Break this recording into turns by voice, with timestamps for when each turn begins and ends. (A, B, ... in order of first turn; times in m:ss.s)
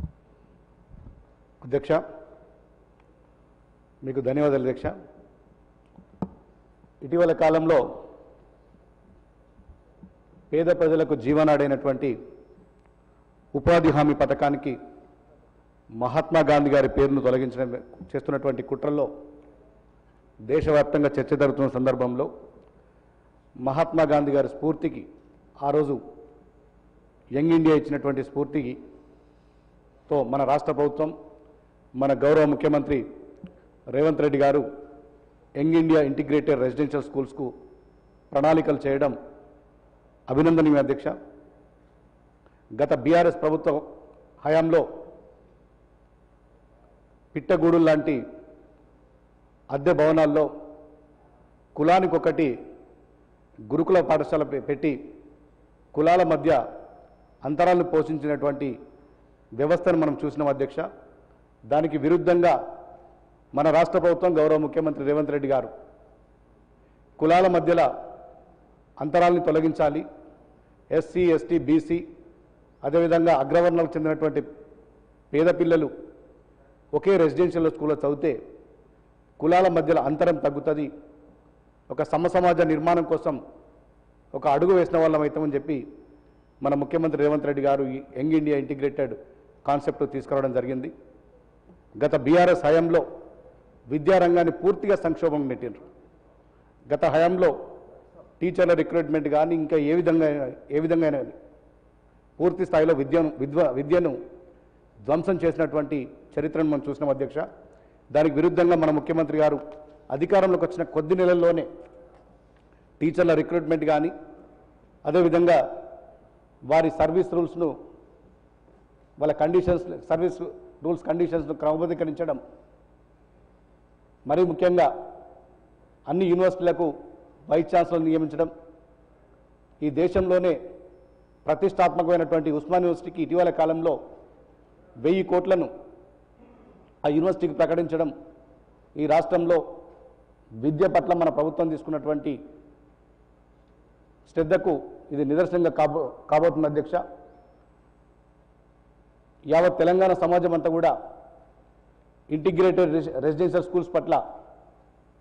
0:01.6-0:02.0 A
0:04.0-0:04.9 A
0:07.0-0:07.8 A
0:10.5-0:12.1 A
0:13.5-0:14.7 A
0:16.0-0:19.1 A
0:20.5-0:22.3 A
0:23.6-0:25.0 A
0:25.6-0:26.0 A
0:27.4-0:28.8 A
0:30.1-0:31.1 A
0:32.0-0:33.0 A
0:33.9-0:34.6 A
0:35.6-0:37.5 A
0:38.3-0:39.1 A
0:40.3-0:41.1 A
0:42.8-0:43.8 A
0:44.4-0:44.8 A
0:47.3-0:48.2 A
0:49.7-0:50.5 A
0:51.8-0:52.5 A
0:53.7-0:55.0 A
0:55.9-0:56.6 A
0:57.4-0:58.7 A
0:59.6-1:00.8 A
1:01.7-1:02.5 A
1:03.5-1:05.7 A
1:07.2-1:07.9 A
1:09.0-1:10.0 A
1:10.9-1:12.0 A
1:12.8-1:14.4 A
1:15.3-1:15.9 A
1:17.0-1:18.3 A
1:19.4-1:20.9 A
1:21.9-1:23.4 A
1:24.3-1:25.8 A
1:26.6-1:30.9 A
1:32.0-1:33.0 A
1:33.9-1:35.8 A
1:36.9-1:37.5 A
1:38.4-1:41.3 A
1:42.4-1:44.1 A
1:45.1-1:47.4 A
1:48.1-1:49.6 A
1:50.1-1:51.7 A
1:53.0-1:54.1 A
1:55.0-1:55.6 A
1:56.7-1:57.7 A
1:59.2-2:02.4 A
2:04.3-2:04.9 A
2:06.1-2:06.9 A
2:07.5-2:08.5 A
2:09.8-2:10.6 A
2:11.4-2:13.9 A
2:15.0-2:15.7 A
2:17.0-2:18.1 A
2:19.0-2:19.6 A
2:20.6-2:22.3 A
2:24.3-2:27.0 A
2:29.5-2:30.9 A
2:32.3-2:34.2 A